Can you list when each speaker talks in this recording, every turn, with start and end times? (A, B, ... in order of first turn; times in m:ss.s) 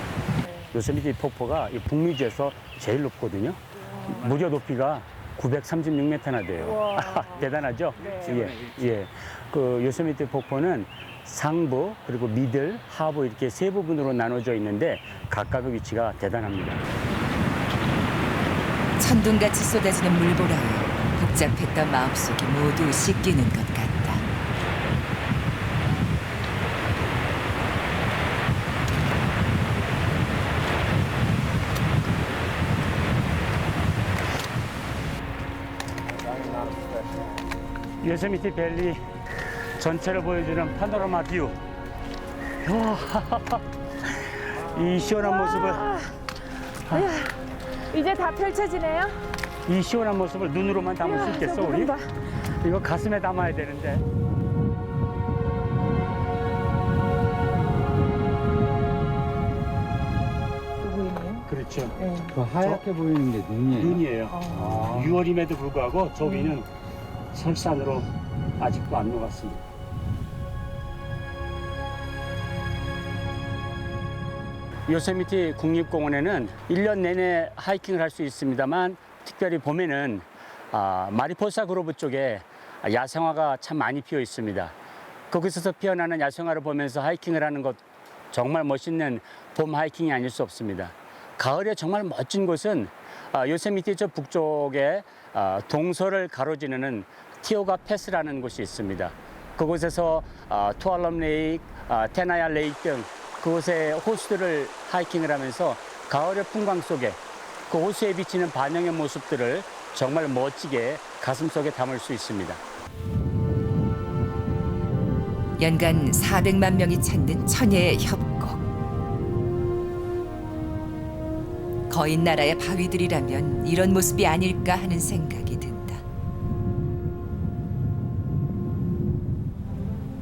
0:00.7-0:16.8 A
0:06.6-0:07.5 B
0:08.0-0:08.4 B
0:08.0-0:08.8 C
0:19.0-0:24.2 D
0:36.4-0:36.9 C
0:38.0-0:39.0 A
0:39.8-0:41.6 A
0:42.6-0:45.9 A
0:45.2-0:46.2 B
0:46.9-0:47.4 B
0:47.9-0:49.2 B
0:49.7-0:51.9 A
0:51.0-0:52.1 B
0:52.5-0:54.0 A
1:00.8-1:02.4 B
1:01.5-1:01.9 A
1:02.3-1:04.0 C
1:03.7-1:06.7 A
1:04.3-1:05.0 B
1:04.8-1:05.2 C
1:06.2-1:06.6 B
1:07.3-1:09.6 A
1:14.9-1:24.7 A
1:25.3-1:27.8 A
1:28.3-1:47.2 A
1:47.7-1:52.6 A
1:55.6-1:58.6 D
2:01.9-2:06.0 D